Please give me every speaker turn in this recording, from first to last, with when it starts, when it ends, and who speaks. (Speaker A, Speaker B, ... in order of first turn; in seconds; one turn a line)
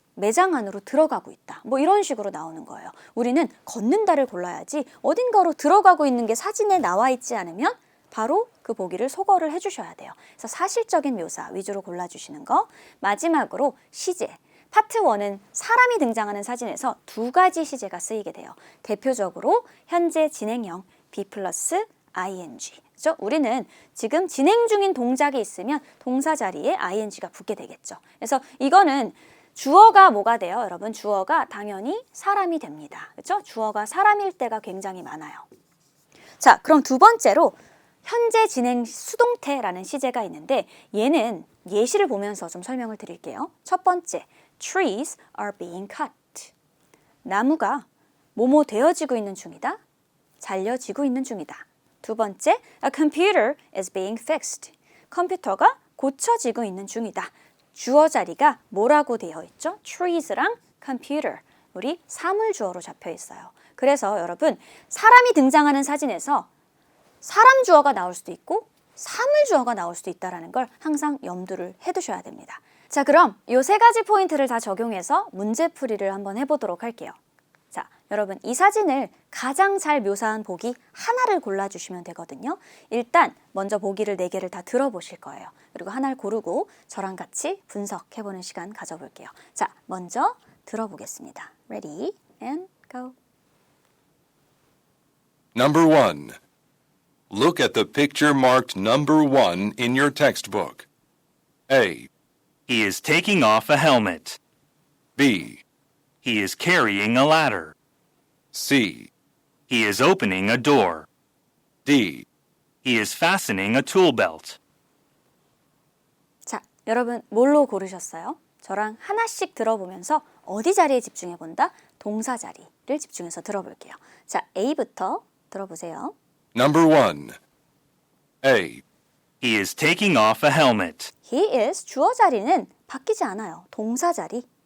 Speaker A: 0.1-35.5
Speaker A: 36.4-46.5
Speaker A: 47.2-49.8
Speaker A: 50.4-66.5
Speaker A: 67.2-77.2
Speaker A: 77.7-93.1
Speaker B: 95.5-96.4
Speaker B: 97.3-100.9
Speaker B: 101.7-102.1
Speaker C: 102.7-104.4
Speaker B: 105.2-105.6
Speaker C: 106.2-107.7
Speaker B: 108.5-109.1
Speaker C: 109.7-111.0
Speaker B: 111.8-112.2
Speaker C: 112.8-114.6
Speaker A: 116.4-126.1
Speaker B: 126.5-127.4
Speaker B: 128.4-128.8
Speaker C: 129.4-131.1
Speaker A: 131.2-134.5